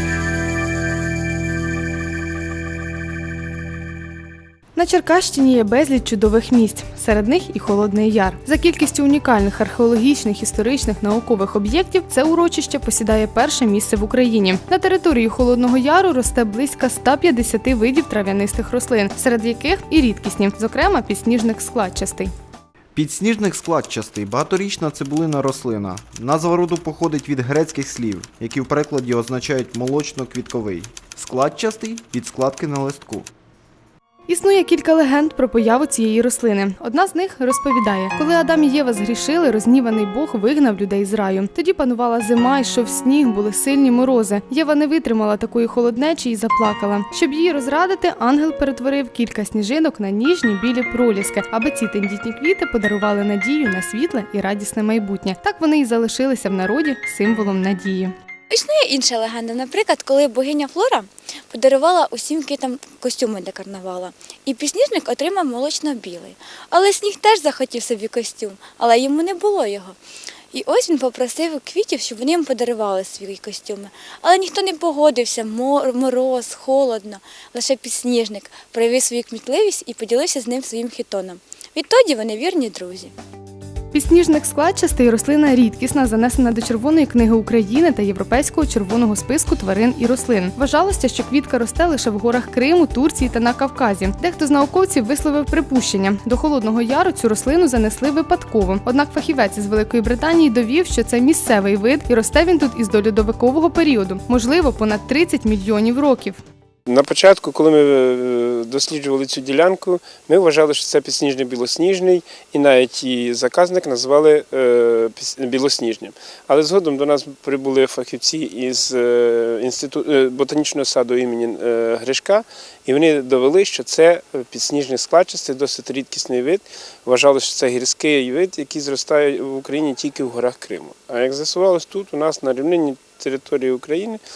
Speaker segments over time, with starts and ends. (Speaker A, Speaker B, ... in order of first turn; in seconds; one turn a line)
Speaker A: 4.8-22.3
Speaker B: 22.9-33.3
Speaker A: 34.3-58.1
Speaker C: 58.5-70.0
Speaker C: 70.5-83.1
Speaker A: 83.9-106.4
Speaker D: 106.9-134.2